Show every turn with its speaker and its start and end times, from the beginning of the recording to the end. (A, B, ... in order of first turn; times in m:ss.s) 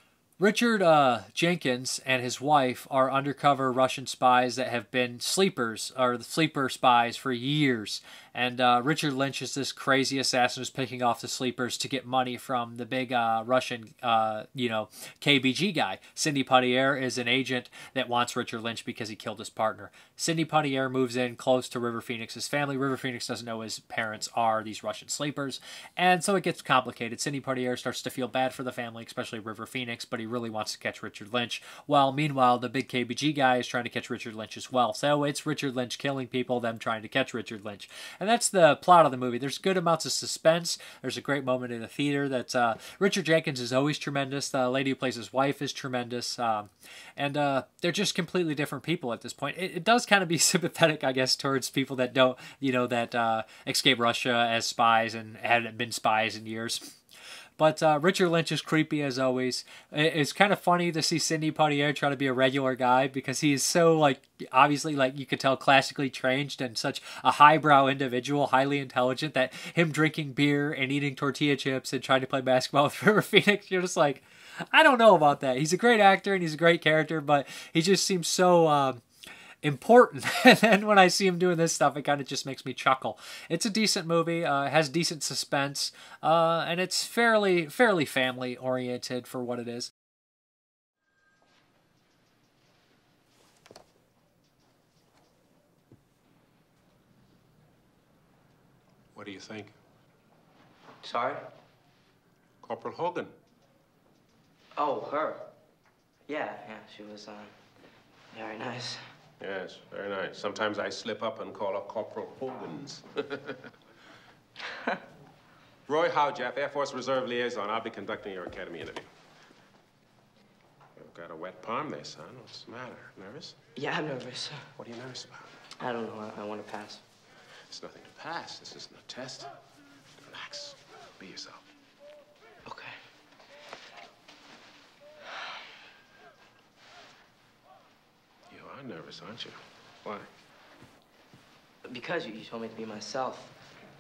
0:00.4-0:57.0 A
0:57.6-1:19.0 A
1:19.6-1:29.9 A
1:39.1-1:39.8 B
1:41.0-1:41.4 C
1:42.6-1:43.3 B
1:44.8-1:45.5 C
1:46.3-1:47.6 C
1:48.3-1:49.1 C
1:49.4-1:53.6 B
1:54.7-1:55.0 C
1:55.9-1:59.1 B
2:01.0-2:03.6 B
2:03.8-2:04.7 C
2:04.8-2:05.6 B
2:05.8-2:07.1 C
2:07.7-2:09.5 B
2:10.2-2:11.6 B
2:12.6-2:13.0 C
2:18.5-2:20.3 B
2:21.8-2:23.6 C